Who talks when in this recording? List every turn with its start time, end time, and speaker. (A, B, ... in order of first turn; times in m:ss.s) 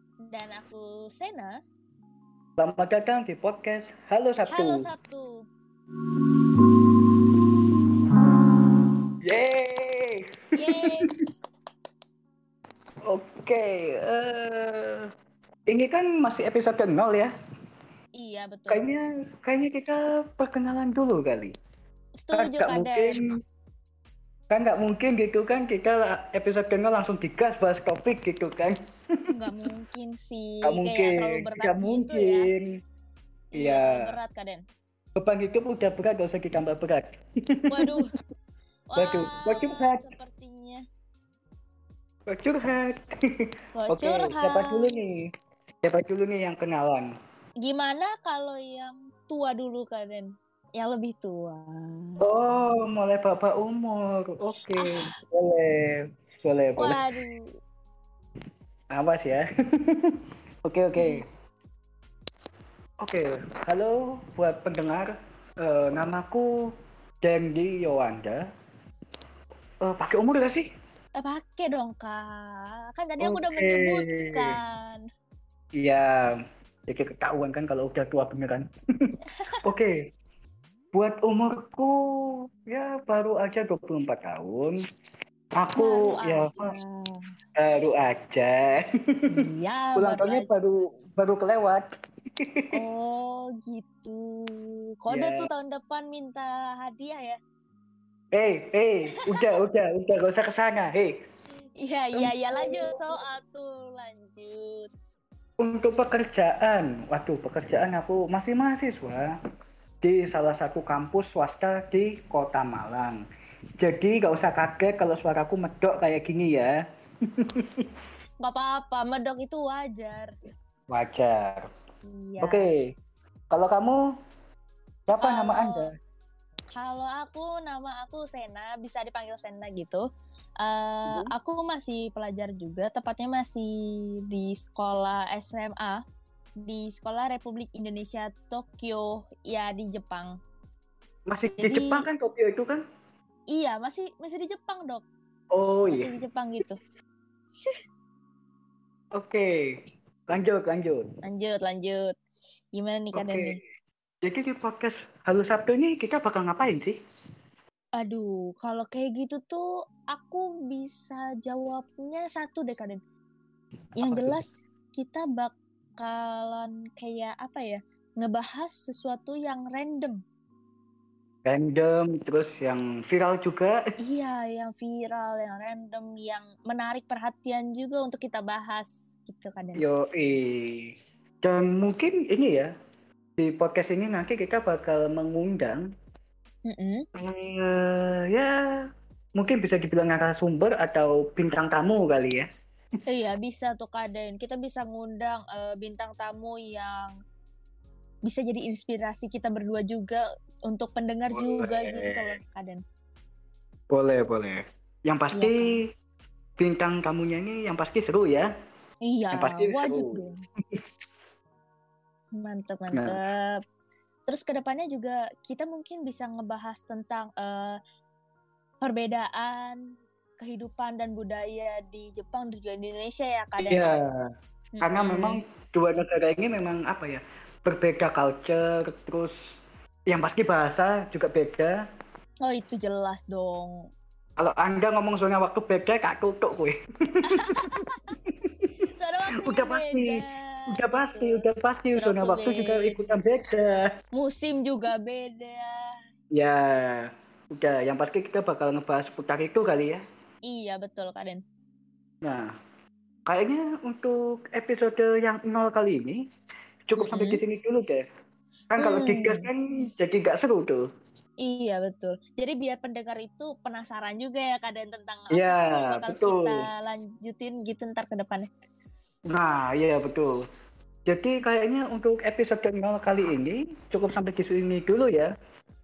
0:00.3-0:01.5 A
0:02.6-0:04.9 B
0:04.5-0:05.5 A
0:09.2-0:10.2 B
0:10.6-0:11.1 A
0:13.1-0:15.1 B
0:15.7-0:17.3 B
0:18.2-0:18.8 A
0:18.7-0:21.5 B
0:22.2-0:23.2 A
0:22.4-0:23.3 B
0:24.5-0:28.8 B
0:29.3-0:32.5 A
0:30.6-0:32.7 B
0:33.5-0:34.6 A
0:33.5-0:34.1 B
0:35.2-0:37.1 B
0:37.7-0:38.1 A
0:38.9-0:40.8 A
0:39.0-0:40.0 B
0:42.3-0:43.0 B
0:43.7-0:44.9 A
0:43.9-0:45.2 B
0:45.8-0:47.1 B
0:47.6-0:52.2 A
0:52.2-0:57.0 B
0:56.8-0:57.5 A
0:58.9-1:00.1 B
1:00.6-1:01.2 B
1:03.0-1:06.5 B
1:07.2-1:08.4 B
1:09.8-1:10.7 B
1:11.1-1:15.0 A
1:13.2-1:14.5 B
1:15.8-1:18.6 B
1:19.6-1:20.0 B
1:20.9-1:24.8 B
1:25.6-1:26.7 B
1:25.8-1:27.3 A
1:27.6-1:28.8 B
1:29.3-1:30.6 A
1:30.0-1:31.8 B
1:32.4-1:32.7 B
1:32.7-1:37.4 A
1:35.1-1:35.5 B
1:38.3-1:41.1 B
1:41.8-1:44.9 A
1:42.1-1:43.0 B
1:45.6-1:49.3 B
1:50.0-1:53.2 B
1:53.8-1:56.7 B
1:58.4-2:00.3 A
2:00.9-2:01.6 B
2:02.1-2:02.6 A
2:02.4-2:02.8 B
2:03.5-2:04.0 B
2:05.1-2:05.9 B
2:05.2-2:05.9 A
2:06.8-2:10.0 A
2:10.6-2:13.7 A
2:14.2-2:16.0 A
2:16.6-2:20.4 A
2:21.3-2:22.8 B
2:21.6-2:22.0 A
2:23.5-2:25.0 A
2:25.5-2:26.1 B
2:25.9-2:26.8 A
2:29.2-2:29.8 B
2:30.3-2:31.0 B
2:31.2-2:32.2 A
2:32.7-2:33.6 A
2:33.1-2:33.6 B
2:34.2-2:37.0 B
2:38.0-2:43.0 A
2:44.0-2:50.2 A
2:44.0-2:44.4 B
2:51.4-2:53.8 B
2:54.0-2:59.8 A
2:59.8-3:02.7 B
3:03.4-3:05.9 B
3:06.7-3:07.0 A
3:07.2-3:08.5 B
3:09.4-3:12.5 B
3:13.1-3:17.1 A
3:18.2-3:22.8 A
3:21.3-3:22.3 B
3:23.9-3:25.8 B
3:25.3-3:25.7 A
3:26.6-3:28.5 B
3:29.0-3:30.4 A
3:29.3-3:30.2 B
3:32.3-3:33.6 A
3:34.3-3:37.8 A
3:38.8-3:39.8 A
3:40.4-3:44.0 A
3:43.6-3:44.1 B
3:44.7-3:45.4 A
3:44.8-3:49.4 B
3:50.1-3:51.8 B
3:52.4-3:53.9 A
3:54.4-3:57.6 B
3:57.3-3:58.0 A
3:58.1-3:58.6 B
3:58.9-4:03.0 A
3:59.4-4:00.2 B
4:00.7-4:03.9 B
4:04.1-4:05.7 A
4:06.3-4:10.0 B
4:10.4-4:11.4 A
4:12.2-4:12.5 B
4:13.3-4:16.2 B
4:16.9-4:18.0 B
4:17.0-4:17.4 A
4:18.7-4:20.8 B
4:18.8-4:19.5 A
4:21.4-4:28.4 A
4:25.3-4:26.6 B
4:29.3-4:30.3 B
4:31.1-4:35.3 B